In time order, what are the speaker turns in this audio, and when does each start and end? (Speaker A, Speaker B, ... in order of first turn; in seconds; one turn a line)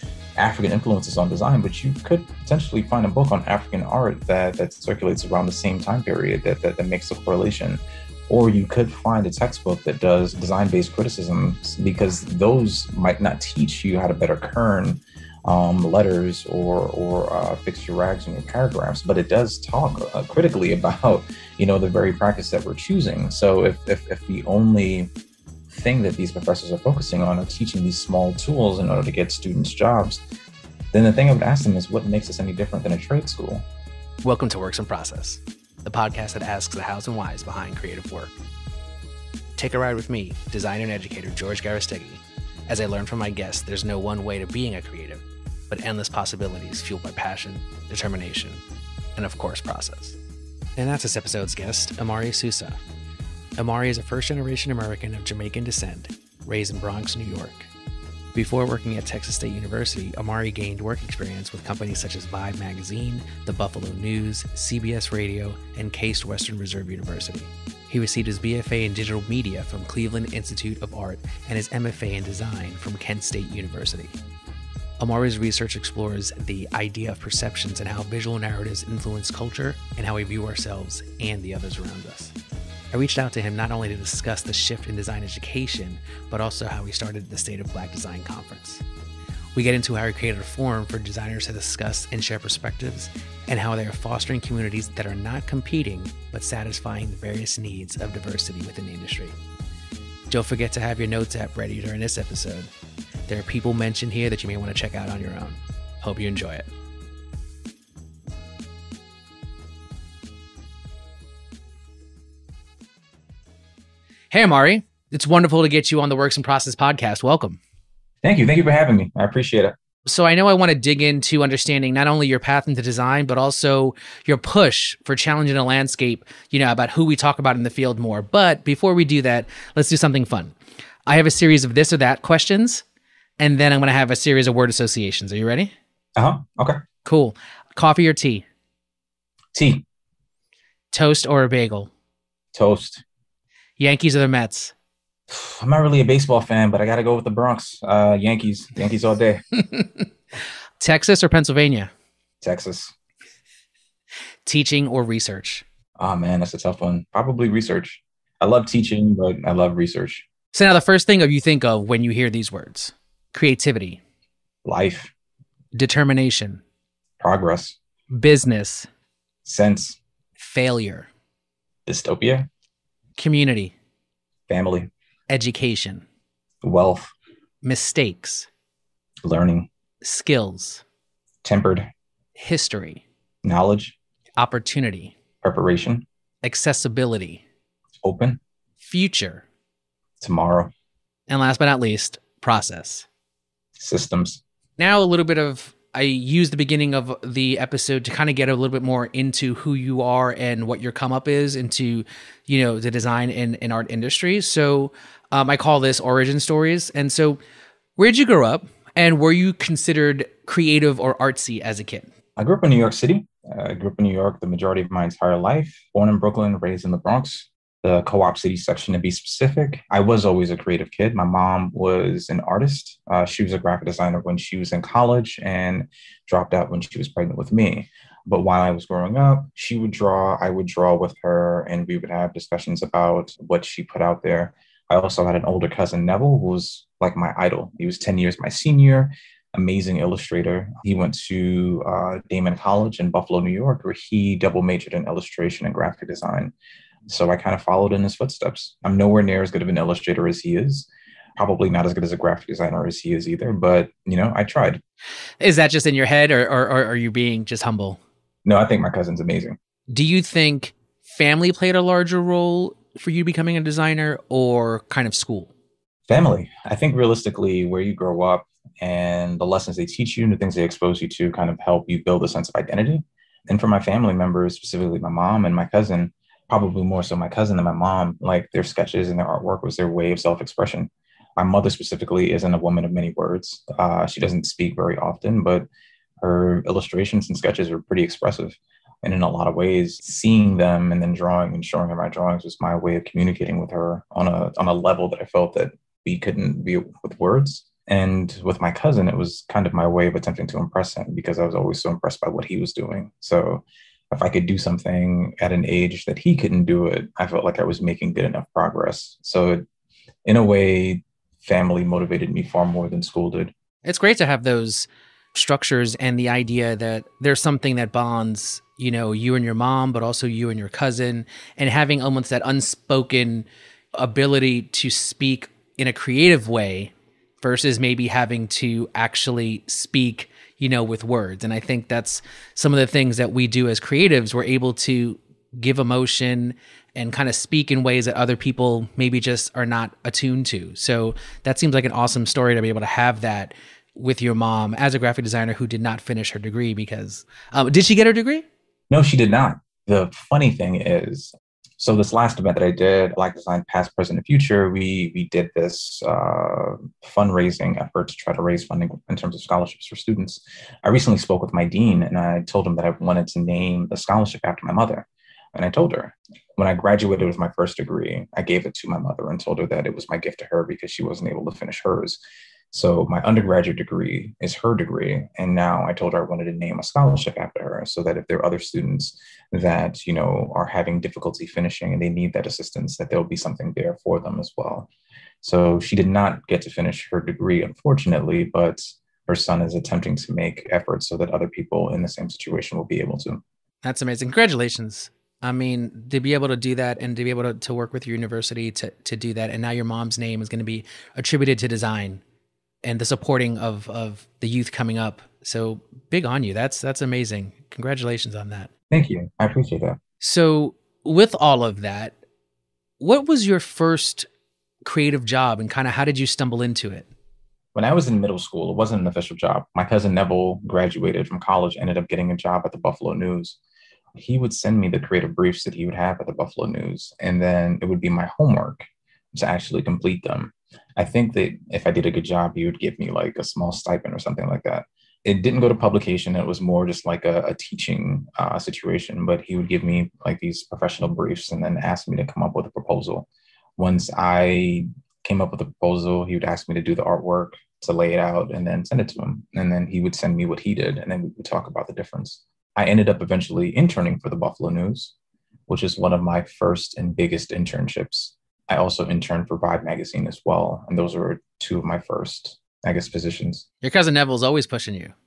Speaker A: 0.4-25.1
Speaker A: 25.7-30.2
Speaker A: 30.9-33.6
Speaker B: 34.2-38.3
Speaker B: 39.6-48.6
Speaker B: 49.1-50.2
Speaker B: 50.8-52.8
Speaker B: 53.6-57.7
Speaker B: 58.3-74.2
Speaker B: 75.0-82.3
Speaker B: 82.9-88.8
Speaker B: 89.5-99.3
Speaker B: 100.3-102.7
Speaker B: 103.3-106.7
Speaker B: 114.3-117.6
Speaker A: 118.2-119.8
Speaker B: 120.0-130.5
Speaker B: 131.1-132.8
Speaker B: 133.4-135.7
Speaker A: 136.2-136.8
Speaker B: 137.0-138.4
Speaker A: 139.5-139.8
Speaker B: 140.9-141.9
Speaker A: 142.5-143.0
Speaker B: 143.8-144.7
Speaker A: 145.3-149.4
Speaker B: 149.7-150.0
Speaker B: 150.8-151.9
Speaker A: 152.4-152.9
Speaker B: 154.4-155.6
Speaker A: 156.0-160.2
Speaker B: 160.5-164.0
Speaker A: 164.6-165.1
Speaker B: 165.7-166.6
Speaker A: 167.2-167.8
Speaker B: 168.1-168.9
Speaker A: 169.4-170.0
Speaker B: 170.4-171.1
Speaker A: 171.8-172.5
Speaker B: 173.2-173.7
Speaker A: 174.5-174.9
Speaker B: 175.3-176.0
Speaker A: 176.6-177.1
Speaker B: 177.6-178.5
Speaker A: 179.2-179.7
Speaker B: 180.0-180.8
Speaker A: 181.4-181.9
Speaker B: 182.3-183.0
Speaker A: 183.4-183.9
Speaker B: 184.4-185.1
Speaker A: 185.4-186.1
Speaker B: 186.4-187.4
Speaker A: 188.0-188.4
Speaker B: 188.8-189.4
Speaker A: 190.2-190.7
Speaker B: 191.3-193.1
Speaker A: 193.8-194.4
Speaker B: 194.8-207.4
Speaker B: 208.0-212.1
Speaker A: 212.4-246.5
Speaker A: 247.1-254.8
Speaker B: 255.4-258.0
Speaker A: 258.4-259.6
Speaker B: 259.9-265.5
Speaker A: 266.1-285.7
Speaker A: 286.2-309.6
Speaker A: 310.2-313.5
Speaker B: 313.8-348.4
Speaker A: 348.9-372.2
Speaker A: 372.7-384.9
Speaker A: 385.4-393.4
Speaker B: 393.8-402.2
Speaker B: 402.8-408.7
Speaker A: 408.9-410.0
Speaker B: 410.2-412.1
Speaker B: 413.0-414.3
Speaker B: 414.8-417.1
Speaker A: 417.7-423.6
Speaker A: 424.1-455.1
Speaker A: 455.7-463.6
Speaker B: 463.8-465.1